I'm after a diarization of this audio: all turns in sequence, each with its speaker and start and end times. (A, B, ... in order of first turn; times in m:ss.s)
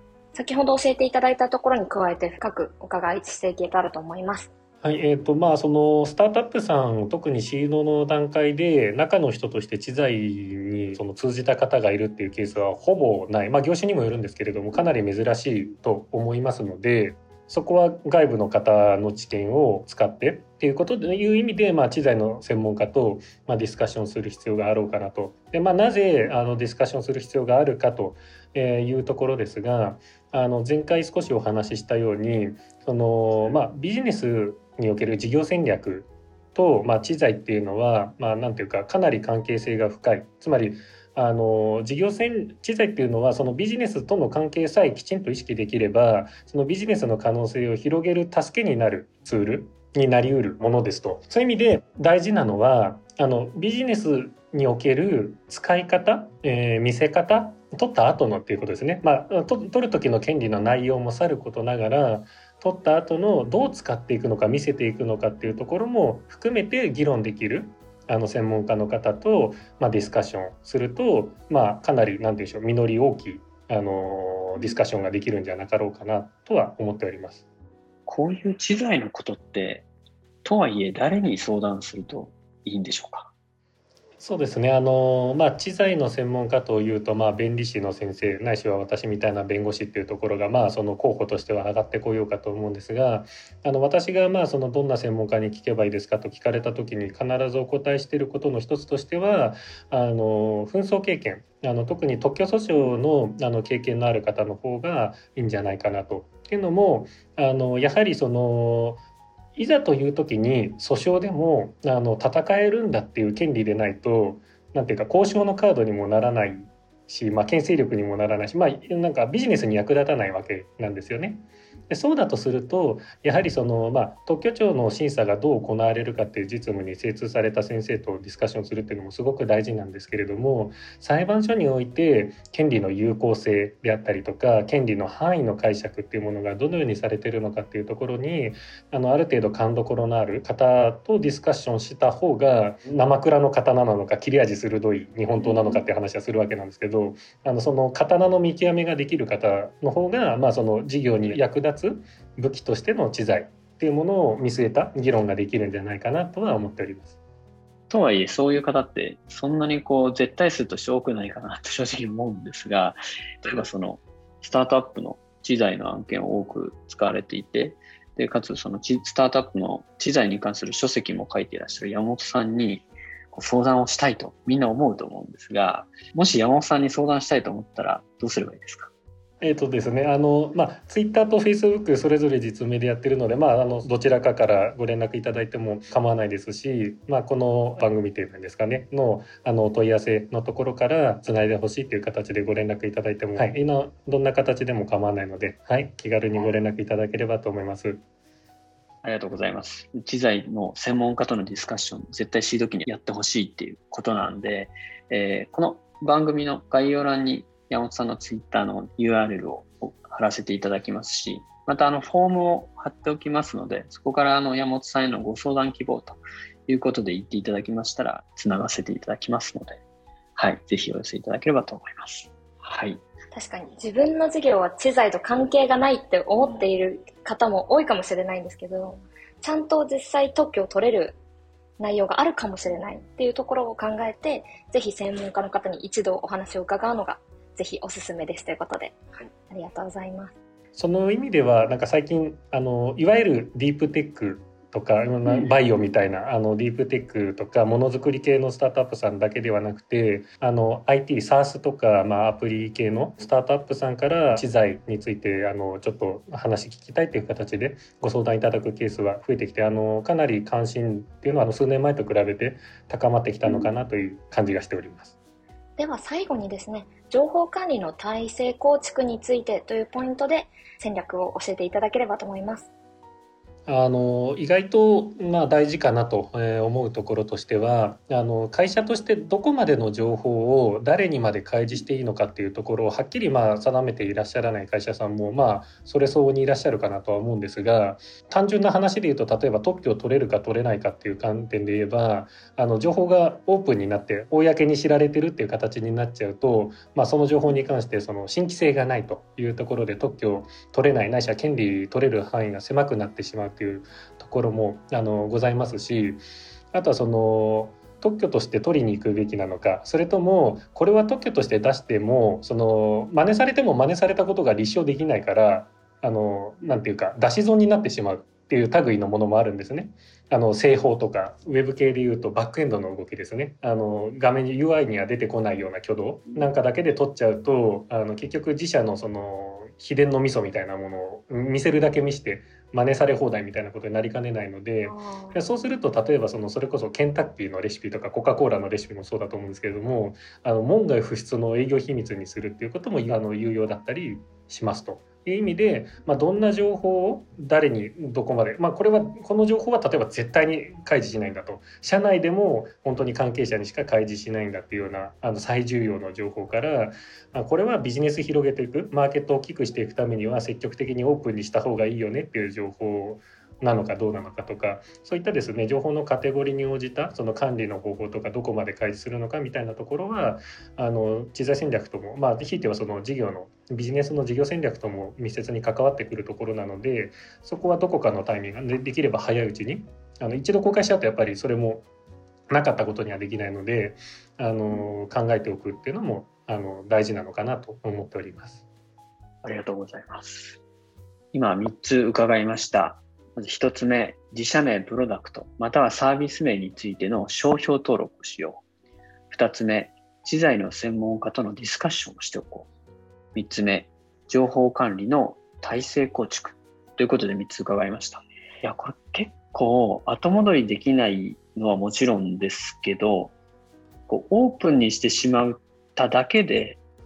0:00.3-0:04.5 A
0:04.8-1:17.4 B
1:18.1-1:19.9 C
1:20.4-1:23.3 C
1:24.2-1:49.0 B
1:49.6-2:37.1 B
2:25.4-2:25.8 A
2:37.9-2:58.9 C
2:59.4-3:18.0 B
3:19.0-3:39.8 C
3:40.4-3:43.0 C
3:43.3-3:51.2 A
3:46.4-3:46.7 C
3:51.8-4:00.3 A
4:00.8-4:25.1 B
4:25.8-4:32.7 A
4:33.7-6:21.8 B
5:34.8-5:35.4 A
6:22.5-6:28.6 B
6:29.4-6:30.6 C
6:31.3-6:38.6 C
6:39.3-6:42.7 C
6:43.3-6:53.3 C
6:54.1-6:56.8 C